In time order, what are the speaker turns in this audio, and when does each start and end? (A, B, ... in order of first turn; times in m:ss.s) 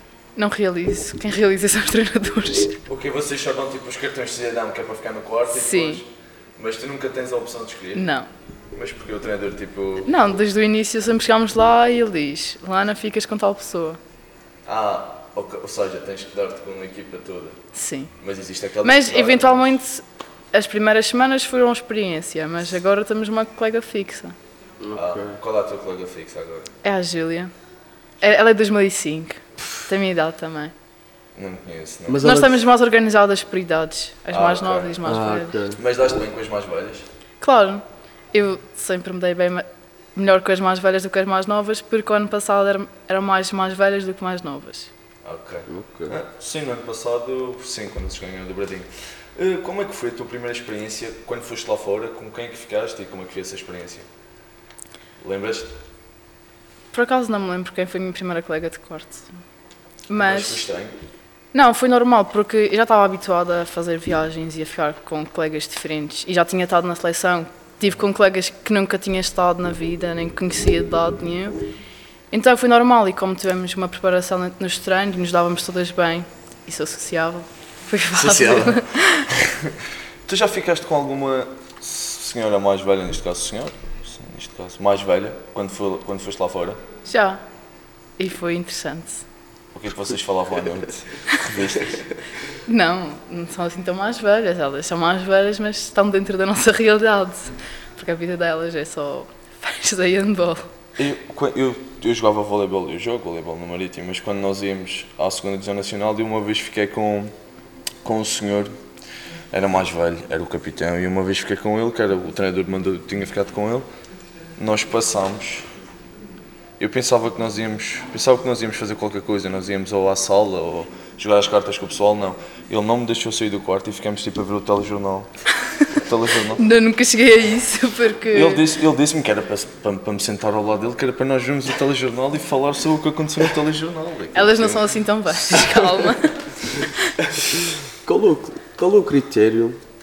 0:00.4-0:02.8 A
0:02.9-0:08.1 B
0:05.5-0:06.0 A
0:07.9-0:08.3 A
0:08.7-0:10.1 B
0:10.1-0:14.0 A
0:14.6-0:17.6 B
0:17.8-0:18.1 A
0:18.2-0:19.8 B
0:18.8-0:24.4 A
0:24.8-0:25.4 C
0:24.9-0:26.7 B
0:26.8-0:27.5 A
0:28.2-0:30.7 A
0:31.4-0:32.2 B
0:32.1-0:32.6 C
0:32.2-0:35.6 A
0:34.3-0:35.0 B
0:35.0-0:35.8 C
0:35.7-0:37.0 B
0:37.4-0:44.9 A
0:45.2-0:54.1 B
0:45.7-0:46.2 C
0:55.2-0:55.8 B
0:56.9-0:59.3 A
1:00.1-1:00.6 A
1:00.2-1:00.9 B
1:01.5-1:11.6 A
1:12.3-1:19.3 A
1:18.1-1:19.8 B
1:20.2-1:26.8 B
1:27.1-1:27.4 A
1:28.2-1:29.2 A
1:29.7-1:32.0 B
1:32.6-1:40.7 A
1:41.0-1:47.3 B
1:48.0-1:48.7 B
1:49.5-1:53.9 B
1:54.6-1:55.6 B
1:56.8-2:05.3 B
2:06.0-2:06.6 B
2:06.6-2:08.6 A
2:08.3-2:14.9 B
2:14.3-2:17.1 A
2:17.9-2:19.8 C